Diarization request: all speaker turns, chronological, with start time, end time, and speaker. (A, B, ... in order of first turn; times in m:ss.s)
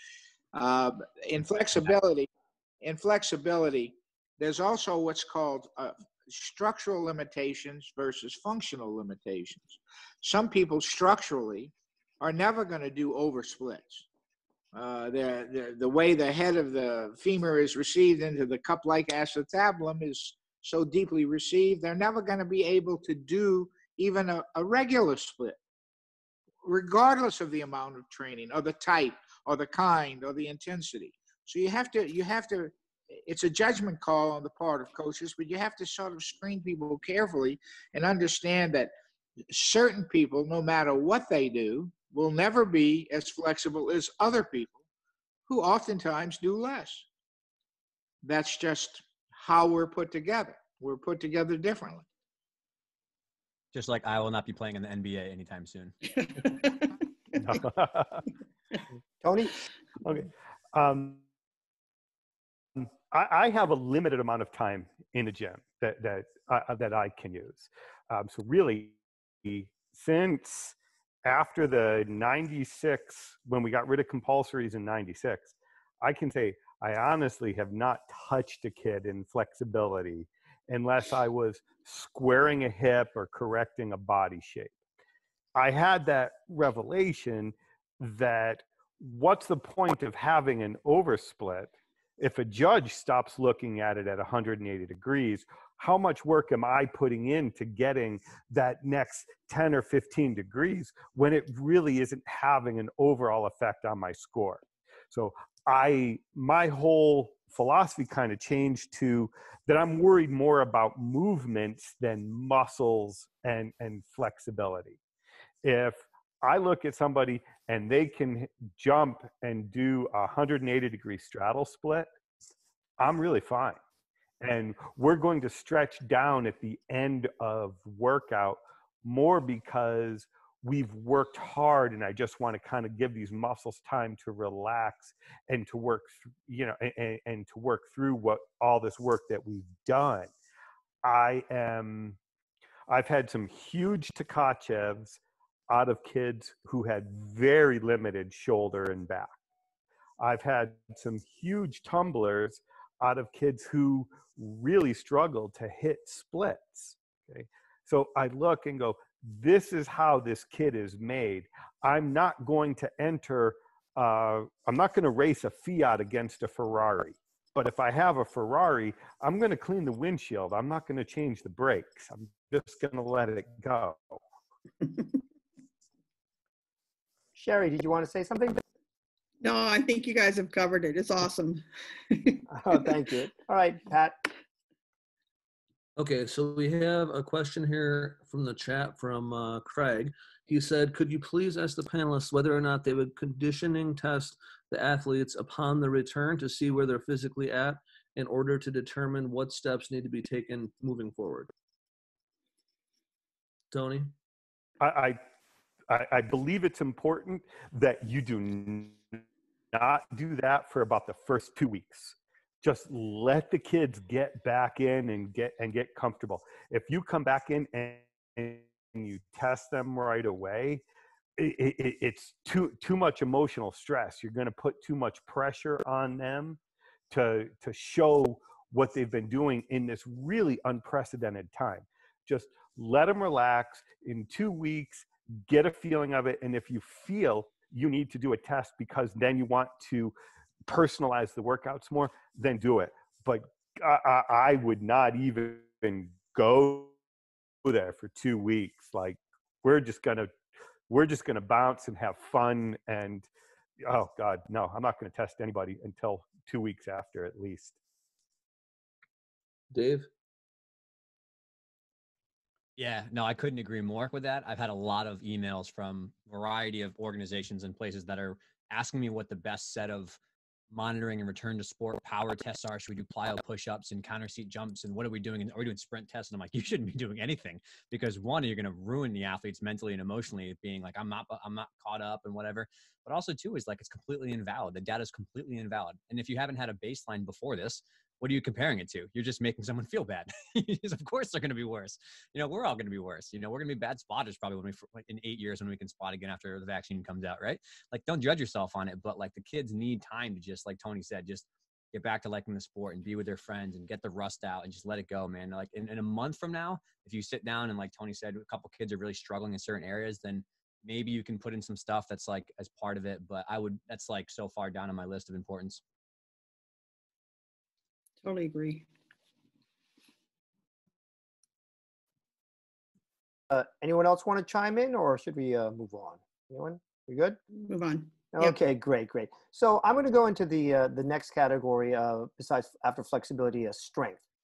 0:00.5-0:02.3 A
0:02.8-0:14.0 A
0:14.7-0:25.6 A
0:26.6-0:32.7 A
0:33.2-0:38.9 A
0:39.5-0:44.8 A
0:45.5-0:47.0 A
0:48.2-0:52.0 A
0:53.7-0:56.0 B
0:56.2-0:56.9 C
0:57.4-0:58.2 D
0:59.2-0:59.5 E
1:00.0-1:01.2 D
1:02.8-1:24.7 D
1:25.6-1:55.0 D
1:55.6-2:02.1 D
2:03.0-2:03.8 D
2:04.4-2:20.3 D
2:21.0-2:22.2 D
2:22.9-2:29.4 D
2:30.2-2:54.2 D
2:57.4-2:58.6 E
2:59.4-3:02.4 C
3:02.5-3:04.3 E
3:06.0-3:21.5 F
3:23.7-3:24.1 F
3:24.8-3:25.2 D
3:25.9-3:40.8 D
3:41.4-3:46.6 D
3:47.1-4:00.1 D
4:00.6-4:06.9 D
4:07.6-4:10.3 D
4:10.9-4:13.3 D
4:13.8-4:17.7 D
4:19.7-4:20.1 F
4:22.8-4:30.2 B
4:30.7-5:15.8 B
5:18.2-5:18.9 C
5:23.5-5:27.4 E
5:27.6-5:28.6 C
5:28.3-5:34.2 E